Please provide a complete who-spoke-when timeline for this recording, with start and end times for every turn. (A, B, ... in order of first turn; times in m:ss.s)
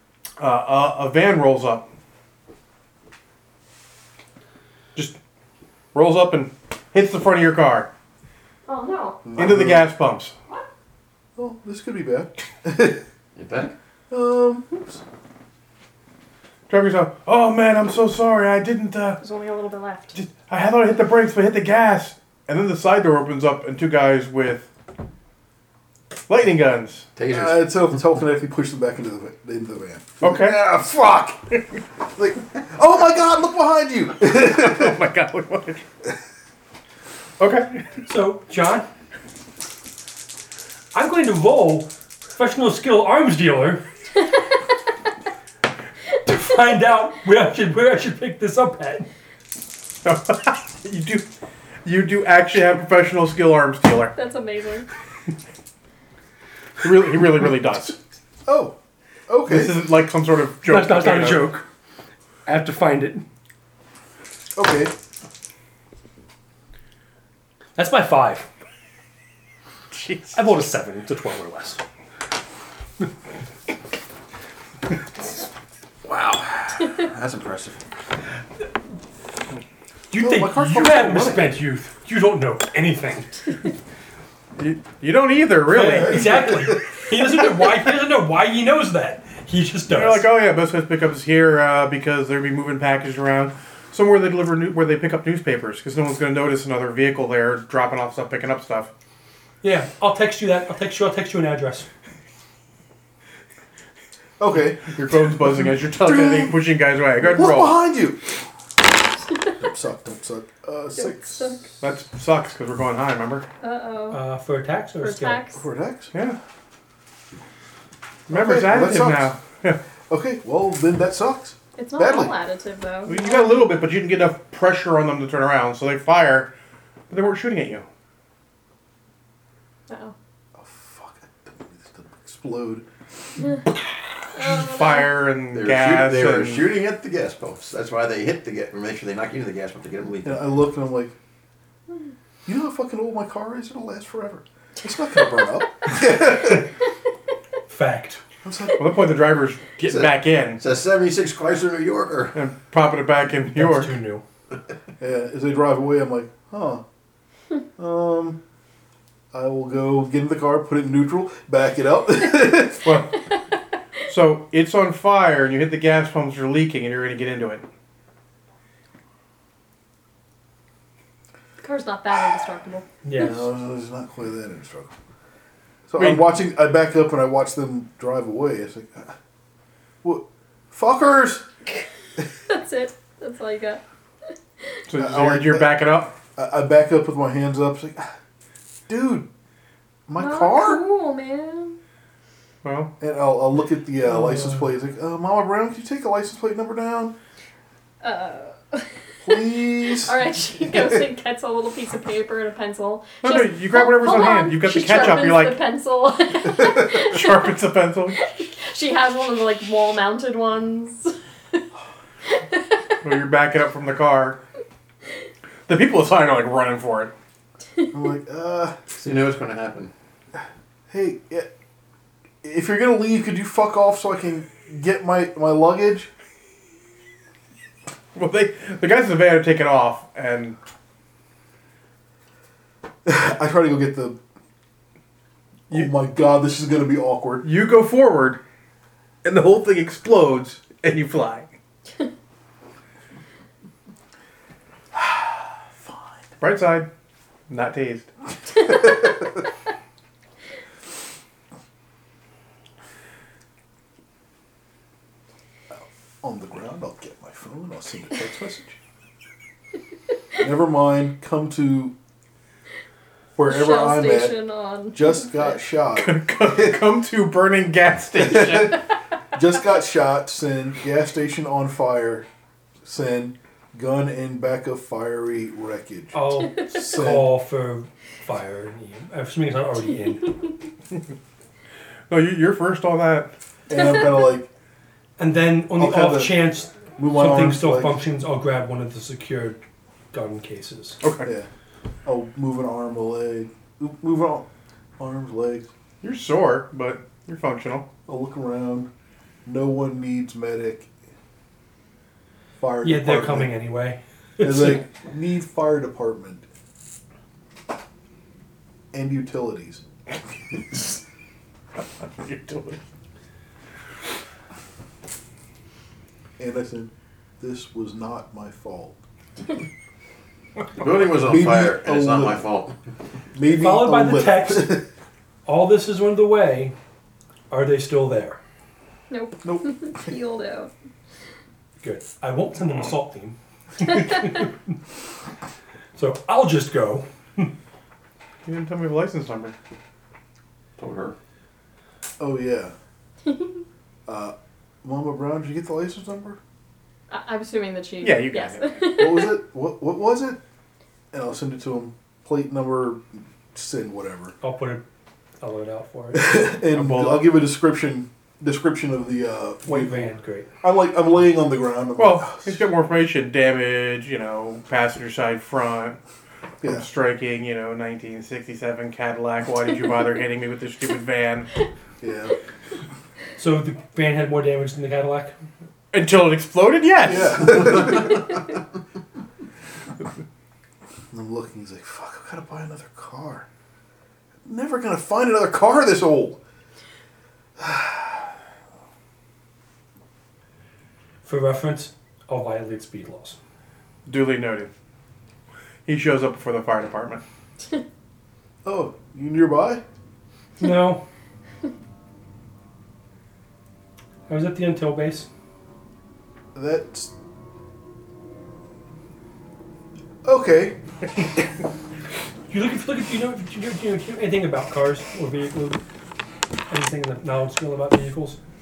0:00.4-0:01.9 A
0:05.9-0:07.9 A
0:08.6-0:09.2 B
0:09.2-0:09.9 C
0:09.4-0:10.3 A
0:11.4-0:13.0 C
0:13.4-0:13.8 D
0:14.1-0:15.0 C
0:16.7-0:19.2 A
0:19.2-0:20.2 B
0:20.2-0:24.7 A
0:26.3-0:27.1 A
0:27.2-0:28.0 D
0:27.3-0:31.5 C
0:30.2-0:30.6 A
0:32.0-0:35.0 C
0:34.2-0:35.9 A
0:37.4-0:37.9 A
0:38.0-0:38.9 E
0:40.9-0:43.8 E
0:46.2-0:49.1 E
0:50.0-0:51.2 A
0:51.8-0:54.2 A
0:54.2-0:54.9 B
0:56.8-0:58.0 A
0:58.4-0:58.8 C
0:59.3-0:59.8 C
0:59.4-1:01.5 A
1:00.6-1:01.6 E
1:02.4-1:03.2 E
1:04.6-1:04.9 C
1:07.8-1:08.5 E
1:09.9-1:10.4 A
1:10.3-1:11.8 E
1:16.0-1:17.8 D
1:20.1-1:23.6 E
1:20.2-1:21.6 C
1:24.6-1:26.3 A
1:25.7-1:30.3 E
1:26.2-1:26.7 C
1:29.9-1:38.9 A
1:39.6-1:41.9 E
1:44.4-1:46.6 C
1:44.9-1:47.8 A
1:47.2-1:48.4 C
1:49.6-1:51.6 C
1:51.0-1:51.7 B
1:51.8-1:53.5 A
1:53.6-1:54.2 B
1:54.1-1:55.4 E
1:55.0-1:55.6 B
1:55.6-1:56.1 C
1:56.1-1:56.4 A
1:58.3-1:59.3 C
1:58.3-1:59.8 A
2:00.1-2:02.3 C
2:01.8-2:03.7 B
2:03.1-2:06.5 A
2:07.1-2:07.9 A
2:09.9-2:10.2 B
2:10.6-2:12.9 C
2:14.4-2:15.1 B
2:14.4-2:16.7 A
2:15.5-2:20.4 D
2:20.2-2:21.2 C
2:22.4-2:26.7 C
2:27.7-2:28.2 E
2:28.4-2:28.8 C
2:28.8-2:30.6 A
2:29.8-2:32.4 D
2:32.3-2:33.9 A
2:33.5-2:34.2 E
2:35.0-2:36.8 C
2:37.8-2:38.4 C
2:39.3-2:42.9 C
2:42.8-2:43.2 A
2:44.1-2:47.7 A
2:51.6-2:52.9 B
2:53.0-2:53.4 E
2:53.2-2:54.9 C
2:55.9-2:59.2 C
2:56.0-2:56.3 A
3:00.0-3:01.5 C
3:02.5-3:03.8 B
3:04.9-3:06.2 A
3:05.0-3:08.1 C
3:08.9-3:09.3 C
3:10.1-3:10.9 C
3:10.2-3:11.8 B
3:12.6-3:12.9 A
3:13.0-3:17.2 C
3:18.0-3:27.5 B
3:19.2-3:21.1 C
3:23.2-3:25.6 A
3:26.9-3:28.2 A
3:28.2-3:31.2 B
3:32.3-3:32.7 B
3:33.0-3:34.4 A
3:35.7-3:37.1 A
3:37.9-3:38.8 C
3:38.9-3:39.9 D
3:40.9-3:41.5 C
3:42.4-3:46.1 C
3:48.2-3:50.6 A
3:53.0-3:54.2 C
3:55.7-3:57.5 C
3:57.4-3:58.4 A
3:59.2-4:01.5 A
4:04.9-4:06.1 C
4:06.4-4:06.9 A
4:07.5-4:08.1 A
4:15.7-4:18.8 C
4:20.4-4:21.9 C
4:23.4-4:24.4 C
4:23.4-4:25.6 B
4:24.9-4:26.8 C
4:26.0-4:28.8 A
4:28.2-4:28.8 C
4:29.3-4:32.3 C
4:32.8-4:37.4 C
4:36.1-4:40.4 E
4:42.1-4:43.3 A
4:43.7-4:44.5 C
4:45.2-4:49.6 E
4:45.8-4:48.1 C
4:50.1-4:51.0 E
4:51.0-4:51.3 A
4:51.2-4:51.5 C
4:52.0-4:54.5 C
4:55.0-4:55.7 C
4:56.0-4:57.9 A
4:58.1-4:58.9 C
4:59.4-5:00.9 C
5:02.6-5:03.5 C
5:02.8-5:04.9 E
5:04.4-5:06.5 C
5:08.9-5:09.8 C
5:12.1-5:12.8 A
5:16.4-5:19.0 C
5:20.8-5:22.8 D
5:21.2-5:22.5 C
5:23.3-5:24.9 C
5:23.5-5:24.8 E
5:25.4-5:26.7 E
5:27.5-5:28.4 E
5:29.1-5:30.7 B
5:29.4-5:30.1 C
5:31.8-5:34.8 E
5:36.0-5:37.5 E
5:38.4-5:39.6 A
5:40.8-5:41.2 D
5:42.2-5:42.7 C
5:43.2-5:43.6 B
5:44.1-5:46.4 C
5:47.1-5:49.4 B
5:48.0-5:48.8 A
5:48.9-5:50.4 C
5:51.1-5:54.4 C
5:54.4-5:54.8 E
5:55.4-5:56.4 E
5:56.1-6:02.6 C
5:56.7-5:57.3 A
5:59.6-6:00.5 E
6:02.0-6:06.0 A
6:06.6-6:06.9 C
6:06.6-6:11.5 A
6:12.0-6:12.3 C
6:13.4-6:15.3 E
6:15.9-6:17.9 A
6:17.0-6:18.2 C
6:21.1-6:23.5 C
6:24.4-6:26.4 C
6:27.6-6:28.3 C
6:31.2-6:33.4 E
6:34.1-6:34.7 A
6:35.9-6:37.2 A
6:38.6-6:39.8 C
6:40.6-6:41.0 E
6:44.3-6:45.3 E
6:46.6-6:47.1 C
6:50.2-6:51.2 C
6:52.5-6:55.8 E
6:56.7-6:58.4 E